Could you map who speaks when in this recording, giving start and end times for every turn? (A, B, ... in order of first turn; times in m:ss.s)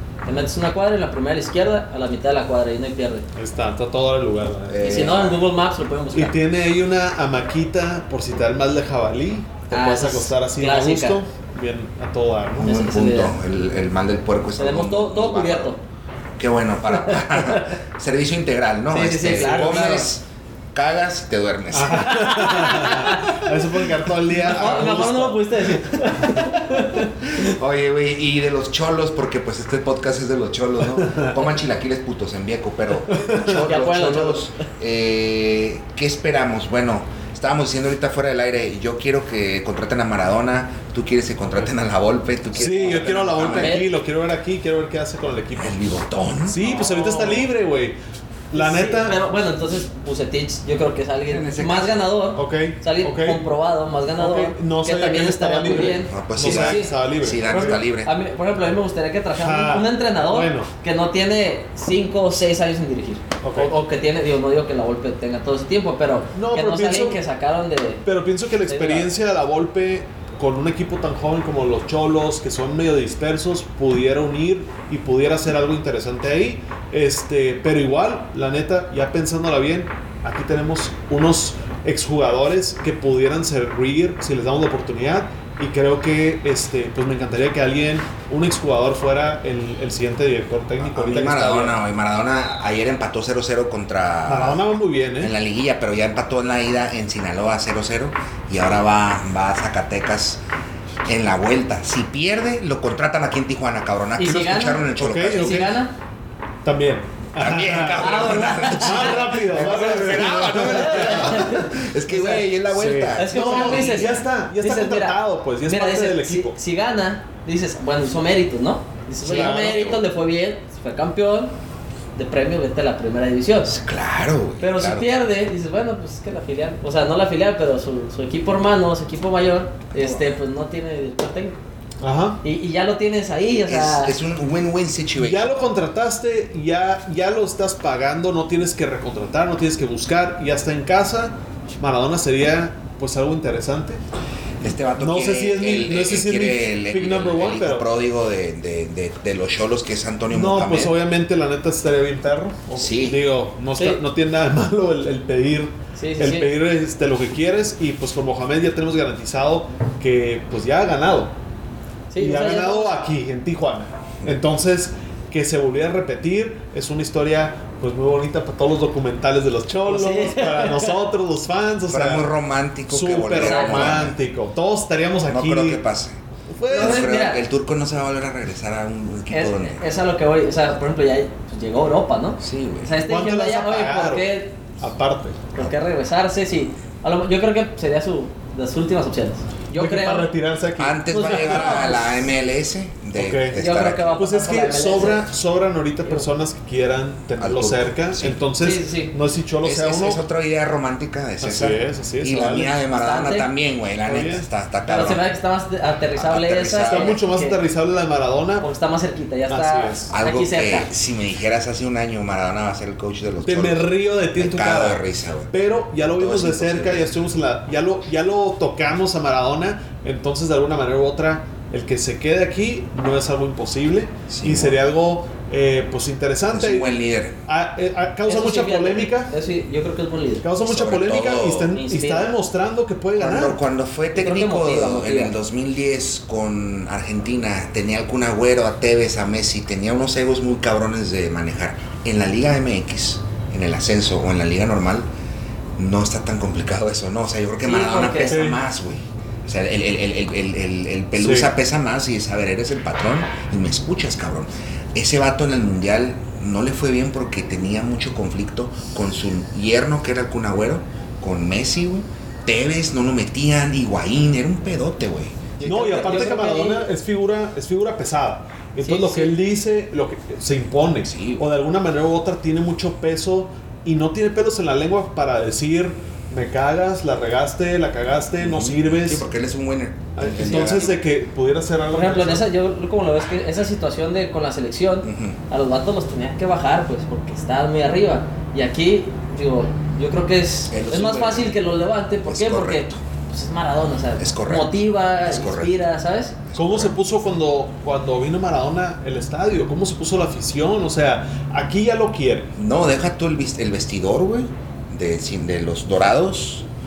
0:00.2-0:03.3 A
0:03.4-0:05.0 B
0:04.7-0:05.4 C
0:04.8-0:06.4 A
0:06.1-0:12.7 B
0:09.7-0:11.2 A
0:12.6-0:15.8 C
0:12.6-0:13.4 A
0:14.6-0:15.8 A
0:16.4-0:22.9 C
0:17.1-0:17.8 A
0:18.9-0:20.1 A
0:19.4-0:19.7 B
0:21.7-0:26.4 B
0:22.1-0:23.5 A
0:24.4-0:27.6 A
0:24.6-0:25.0 C
0:27.4-0:43.8 C
0:31.0-0:31.3 B
0:33.1-0:33.7 B
0:33.6-0:34.5 A
0:42.5-0:45.8 B
0:43.6-0:43.9 A
0:45.6-0:46.6 C
0:46.5-0:48.0 B
0:46.6-0:47.5 A
0:48.5-0:49.2 B
0:48.5-0:57.0 A
0:51.3-0:52.1 C
0:52.4-0:53.4 B
0:54.1-0:57.8 B
0:56.1-0:58.1 C
0:57.5-1:08.0 A
0:59.4-1:00.7 B
1:03.4-1:03.7 B
1:06.4-1:07.2 B
1:08.0-1:31.8 B
1:08.7-1:09.1 A
1:30.9-1:34.6 C
1:34.3-1:35.3 B
1:35.2-1:40.4 C
1:41.0-1:45.8 C
1:44.2-1:45.9 A
1:45.0-1:45.8 B
1:46.6-1:56.6 B
1:47.4-1:54.2 C
1:48.0-1:49.2 A
1:50.7-1:51.8 A
1:53.2-2:01.6 A
1:59.2-2:00.0 B
1:59.4-2:00.0 C
2:02.2-2:03.8 A
2:03.7-2:05.1 C
2:04.6-2:11.6 A
2:09.9-2:10.3 C
2:12.0-2:12.4 B
2:12.4-2:14.2 A
2:13.6-2:15.5 C
2:15.2-2:24.0 B
2:24.6-2:31.0 C
2:25.0-2:27.9 B
2:30.3-2:41.4 B
2:32.8-2:33.2 C
2:36.0-2:36.5 A
2:42.1-2:43.0 A
2:42.2-2:52.3 B
2:49.9-2:51.0 A
2:51.9-2:54.2 C
2:52.9-2:55.8 B
2:53.4-2:54.0 A
2:55.3-2:56.2 C
2:56.5-2:57.1 B
2:56.7-2:57.4 A
2:56.7-2:59.8 C
2:59.3-3:04.6 A
3:02.4-3:03.0 C
3:03.0-3:05.5 B
3:05.5-3:10.3 A
3:09.8-3:12.1 B
3:10.8-3:14.2 C
3:11.1-3:12.0 A
3:13.2-3:13.6 B
3:13.6-3:15.3 A
3:14.1-3:20.2 B
3:17.4-3:18.4 C
3:18.6-3:19.1 A
3:19.6-3:25.2 C
3:21.4-3:22.7 B
3:23.0-3:23.5 A
3:24.0-3:24.5 B
3:24.9-3:27.6 A
3:26.2-3:27.2 C
3:26.9-3:28.7 B
3:28.6-3:30.9 A
3:29.5-3:30.1 B
3:30.1-3:35.5 C
3:33.4-3:46.9 B
3:36.1-3:37.1 C
3:44.3-3:44.8 C
3:46.5-3:47.4 C
3:47.5-3:49.3 B
3:48.3-3:50.5 A
3:50.4-3:53.6 B
3:50.6-3:51.8 C
3:51.7-3:52.4 A
3:53.2-4:05.1 C
3:54.1-3:55.4 A
4:05.8-4:26.1 C
4:07.6-4:08.4 A
4:08.3-4:08.6 B
4:11.2-4:11.5 B
4:25.6-4:26.9 A
4:25.6-4:39.3 B
4:28.8-4:29.4 A
4:31.0-4:31.5 C
4:38.4-4:41.0 C
4:40.2-4:42.5 B
4:41.9-4:56.4 A
4:45.0-4:45.4 C
4:50.7-4:51.6 C
4:52.3-4:53.0 C
4:54.2-4:55.8 C
4:56.5-4:57.0 C
4:56.6-5:02.5 B
5:02.6-5:06.7 C